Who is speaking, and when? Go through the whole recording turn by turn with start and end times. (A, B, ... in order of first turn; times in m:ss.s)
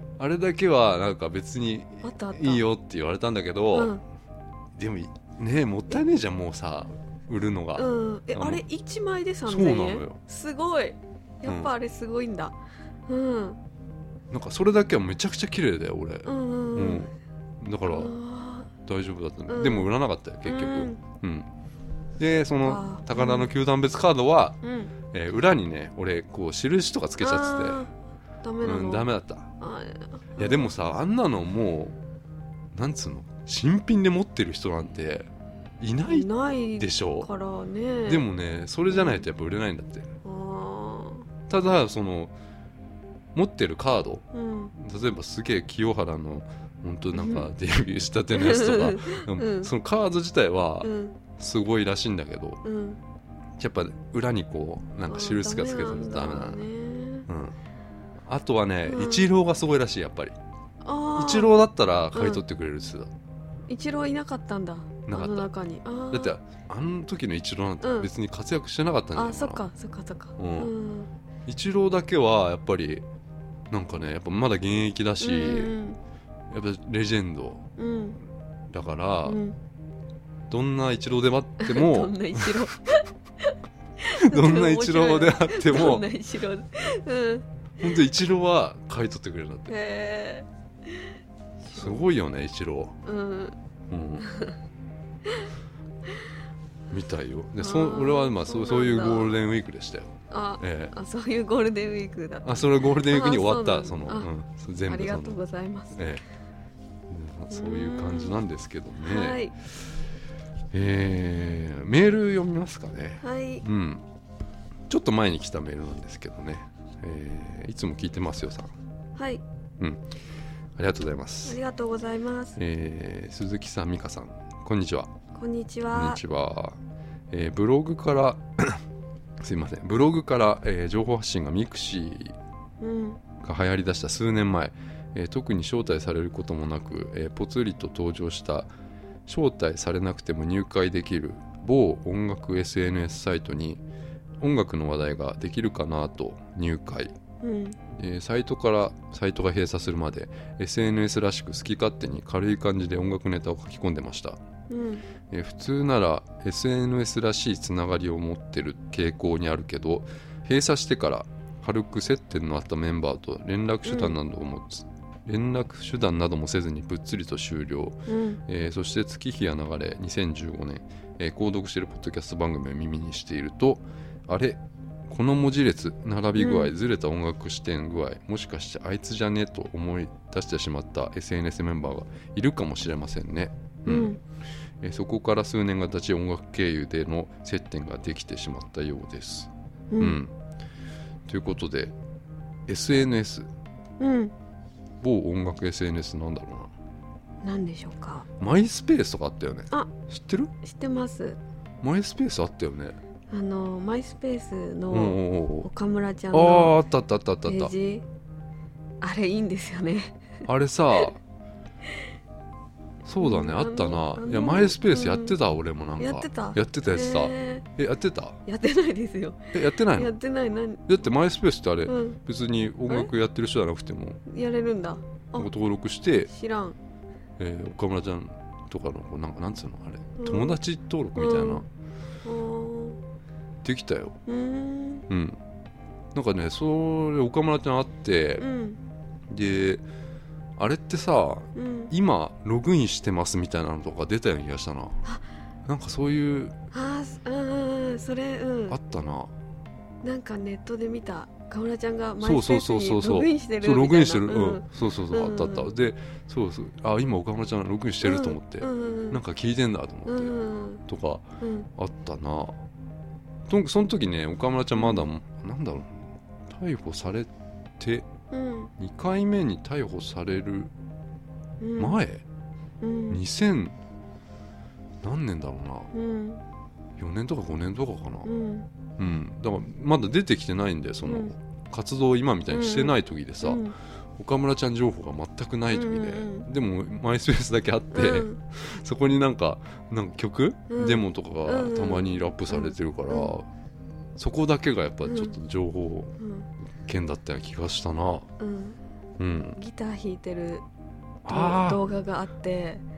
0:00.2-0:04.0 A
0:02.0-0:02.6 B
0:03.7-0:04.0 B
0:04.7-0:08.6 A
0:07.8-0:12.6 B
0:09.4-0:10.2 A
0:11.4-0:11.7 A
0:13.1-0:13.6 B
0:14.3-0:18.2 A
0:16.2-0:17.0 B
0:17.8-0:18.7 B
0:18.8-0:21.5 A
0:19.5-0:19.9 B
0:20.4-0:21.0 B
0:22.2-0:24.6 A
0:22.6-0:23.5 B
0:24.6-0:24.9 B
0:25.1-0:27.8 A
0:27.2-0:27.9 B
0:28.4-0:29.1 B
0:28.6-0:29.5 A
0:29.6-0:30.7 B
0:30.4-0:32.0 A
0:32.7-0:37.3 A
0:36.1-0:38.2 B
0:38.0-0:40.1 A
0:38.9-0:39.2 B
0:40.2-0:41.2 B
0:41.5-0:42.3 A
0:43.3-0:52.6 A
0:44.3-0:44.7 B
0:47.1-0:47.5 B
0:48.3-0:49.7 B
0:50.8-0:51.2 B
0:52.6-0:53.0 B
0:53.6-0:56.6 A
0:55.1-0:57.3 B
0:57.3-0:57.6 A
0:58.2-1:00.4 A
0:58.8-0:59.3 B
1:00.8-1:01.6 B
1:01.2-1:03.1 A
1:02.1-1:02.4 B
1:03.7-1:06.4 B
1:05.1-1:05.5 A
1:06.1-1:09.6 A
1:07.8-1:08.1 B
1:09.1-1:11.1 B
1:10.4-1:10.7 A
1:11.4-1:13.0 A
1:13.7-1:15.7 A
1:15.2-1:16.0 B
1:16.5-1:17.7 A
1:17.8-1:18.2 B
1:18.7-1:19.4 A
1:19.2-1:19.6 B
1:20.5-1:22.6 A
1:21.6-1:27.4 B
1:24.1-1:26.0 A
1:27.8-1:29.7 A
1:29.7-1:32.0 B
1:31.7-1:33.0 A
1:33.0-1:33.6 B
1:33.9-1:34.2 A
1:34.2-1:34.6 B
1:36.9-1:40.9 A
1:37.6-1:39.4 B
1:40.3-1:44.3 B
1:42.4-1:45.4 A
1:44.8-1:46.0 B
1:45.9-1:46.2 A
1:47.1-1:49.4 A
1:47.5-1:48.4 B
1:49.0-1:49.5 B
1:50.7-1:54.0 A
1:53.2-1:53.6 B
1:54.9-1:58.7 A
1:59.2-1:59.4 B
2:00.8-2:01.6 A
2:01.4-2:02.6 B
2:02.6-2:05.1 A
2:05.3-2:06.2 B
2:05.9-2:06.8 A
2:07.3-2:08.8 A
2:09.4-2:12.4 A
2:12.8-2:13.2 B
2:13.4-2:18.7 A
2:19.2-2:23.8 A
2:24.4-2:27.1 A
2:27.4-2:27.8 B
2:27.9-2:34.4 A
2:34.7-2:35.0 B
2:35.3-3:04.2 A
2:43.8-2:44.2 B
2:48.1-2:48.4 B
2:56.4-2:56.7 B
3:03.8-3:04.2 B
3:04.8-3:10.3 A
3:09.9-3:10.2 B
3:11.3-3:11.9 A
3:12.7-3:13.5 A
3:14.0-3:14.3 B
3:15.0-3:16.7 A
3:17.4-3:18.3 B
3:18.4-3:20.5 A
3:20.6-3:21.4 B
3:21.8-3:23.0 A
3:23.3-3:26.7 B
3:24.9-3:25.7 A
3:26.3-3:27.7 A
3:27.4-3:28.0 B
3:29.0-3:30.2 B
3:30.4-3:31.2 A
3:33.0-3:38.4 A
3:33.2-3:35.4 B
3:36.0-3:37.6 B
3:38.4-3:40.8 B
3:39.5-3:40.1 A
3:40.9-3:44.2 A
3:41.9-3:42.2 B
3:44.2-3:45.5 B
3:45.4-3:46.3 A
3:46.3-3:46.8 B
3:47.4-3:51.6 A
3:50.2-3:50.6 B
3:51.2-3:51.6 B
3:52.2-3:53.0 B
3:53.6-3:54.2 A
3:54.2-3:55.0 B
3:55.1-3:55.4 A
3:56.1-3:58.4 A
3:58.4-3:58.8 B
3:59.3-3:59.8 A
4:00.6-4:05.0 A
4:01.5-4:01.9 B
4:05.6-4:06.5 A
4:06.7-4:08.8 B
4:08.7-4:09.3 A
4:10.0-4:15.7 B
4:12.2-4:22.6 A
4:18.0-4:19.2 B
4:20.0-4:20.8 B
4:21.4-4:21.7 B
4:23.5-4:28.1 A
4:24.8-4:25.0 B
4:28.3-4:28.7 B
4:28.8-4:30.7 A
4:31.6-4:32.0 B
4:31.8-4:32.2 A
4:32.8-4:33.2 B
4:33.1-4:33.7 A
4:35.0-4:35.9 A
4:35.9-4:36.4 B
4:37.0-4:38.3 A
4:38.2-4:38.7 B
4:39.0-4:43.6 A
4:41.0-4:41.3 B
4:42.5-4:43.8 B
4:44.2-4:53.5 A
4:45.7-4:46.5 B
4:47.9-4:48.4 B
4:50.7-4:53.3 B
4:54.2-4:56.2 A
4:55.0-4:55.3 B
4:56.2-4:56.5 B
4:56.8-4:58.3 A
4:58.4-4:58.8 B
4:59.2-4:59.6 A
4:59.5-5:00.6 B
5:01.2-5:01.8 A
5:01.3-5:02.8 B